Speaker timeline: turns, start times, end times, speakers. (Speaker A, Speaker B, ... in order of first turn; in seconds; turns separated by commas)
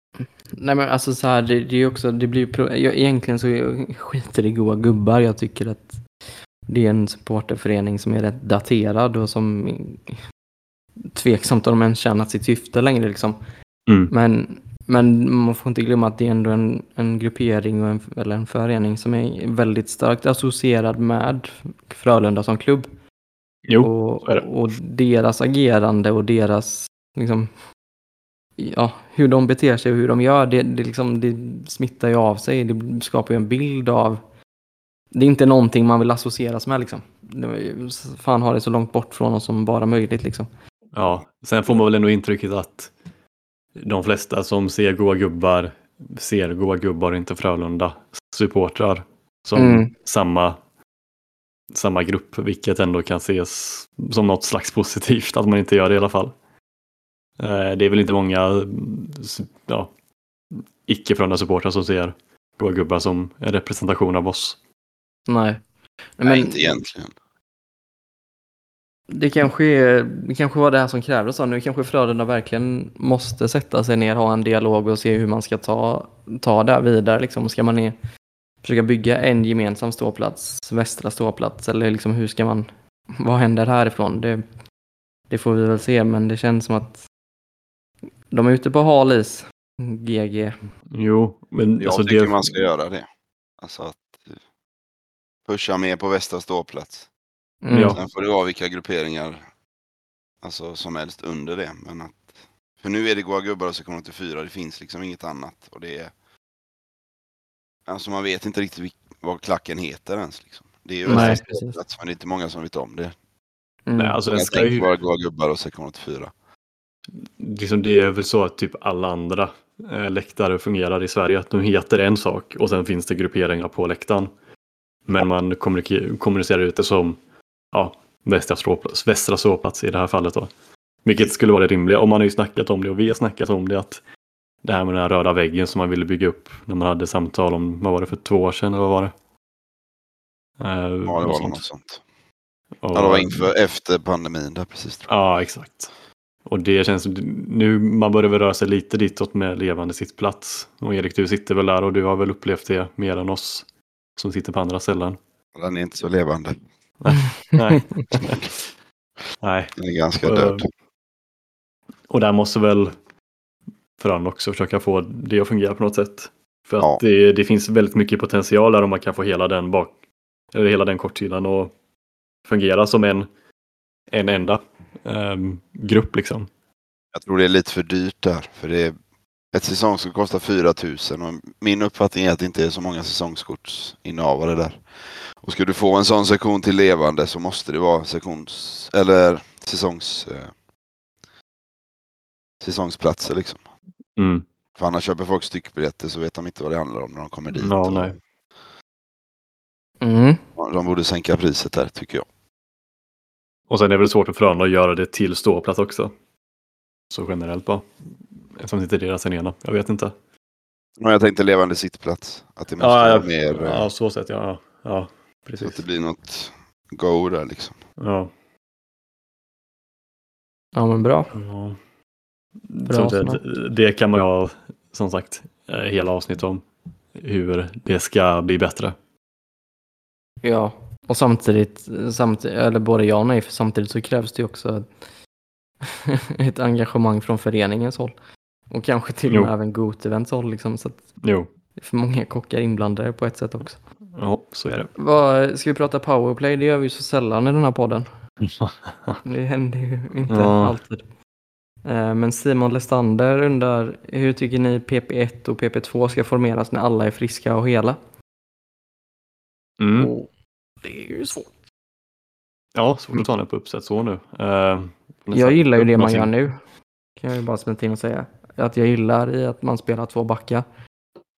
Speaker A: 0.5-6.0, Speaker A: 6.7-10.2, Speaker A: 11.1-13.4, Speaker B: 13.9-14.1, Speaker A: 14.1-22.9, Speaker B: 23.6-24.4, Speaker A: 23.8-27.5, Speaker A: 28.6-34.2, Speaker A: 35.1-40.5, Speaker B: 40.9-42.9, Speaker B: 43.8-50.6, Speaker A: 49.5-49.9, Speaker B: 51.7-56.3, Speaker B: 57.4-59.9, Speaker B: 60.5-64.6, Speaker A: 65.3-65.6, Speaker A: 66.2-66.8, Speaker C: 66.2-67.1, Speaker A: 69.1-77.9, Speaker A: 78.6-84.4, Speaker A: 85.3-87.1, Speaker A: 88.3-90.6, Speaker B: 90.9-92.5, Speaker C: 91.8-93.0, Speaker C: 93.6-94.4, Speaker C: 95.5-97.1, Speaker A: 97.6-98.0, Speaker B: 97.7-98.0, Speaker C: 97.9-99.4, Speaker C: 100.4-106.1, Speaker C: 107.9-113.1, Speaker A: 111.1-111.8, Speaker B: 111.1-111.4, Speaker A: 113.9-114.2, Speaker B: 114.0-114.9, Speaker C: 114.3-116.3, Speaker B: 117.2-124.3, Speaker B: 125.1-127.2, Speaker B: 127.7-130.5, Speaker B: 131.0-134.0, Speaker B: 134.6-139.1, Speaker B: 140.6-141.6, Speaker C: 141.1-142.0, Speaker B: 142.8-143.4, Speaker C: 142.9-145.1, Speaker B: 145.1-145.9, Speaker B: 146.4-153.6, Speaker B: 154.2-155.2, Speaker C: 155.5-156.6, Speaker B: 157.0-158.6, Speaker B: 159.4-160.6, Speaker C: 159.8-160.7, Speaker B: 162.1-162.9, Speaker B: 164.0-169.9, Speaker B: 170.5-171.7, Speaker B: 172.4-173.3, Speaker B: 174.1-176.5, Speaker C: 177.1-178.9, Speaker C: 179.5-190.5, Speaker C: 192.6-193.6, Speaker B: 194.2-194.4, Speaker C: 194.8-198.2, Speaker B: 197.5-198.1, Speaker A: 200.0-200.4, Speaker C: 200.6-202.3, Speaker B: 203.7-206.1, Speaker B: 207.1-207.9, Speaker B: 208.6-210.1, Speaker C: 211.0-213.9, Speaker B: 212.8-215.8, Speaker C: 215.6-217.8, Speaker B: 218.0-218.3, Speaker A: 220.7-221.3, Speaker B: 221.3-221.8, Speaker B: 222.7-226.6, Speaker A: 222.8-223.4, Speaker B: 227.1-228.9, Speaker A: 230.4-234.9, Speaker A: 235.8-238.1, Speaker A: 238.7-241.1, Speaker B: 241.2-241.5, Speaker A: 241.8-243.8, Speaker B: 244.2-244.9, Speaker A: 244.9-248.1, Speaker B: 248.4-249.2, Speaker A: 249.2-251.0, Speaker B: 250.3-250.8, Speaker A: 251.8-258.0, Speaker B: 259.8-260.1, Speaker A: 259.9-260.3, Speaker A: 260.8-261.5, Speaker B: 262.7-266.3, Speaker A: 265.3-266.6, Speaker A: 267.2-270.6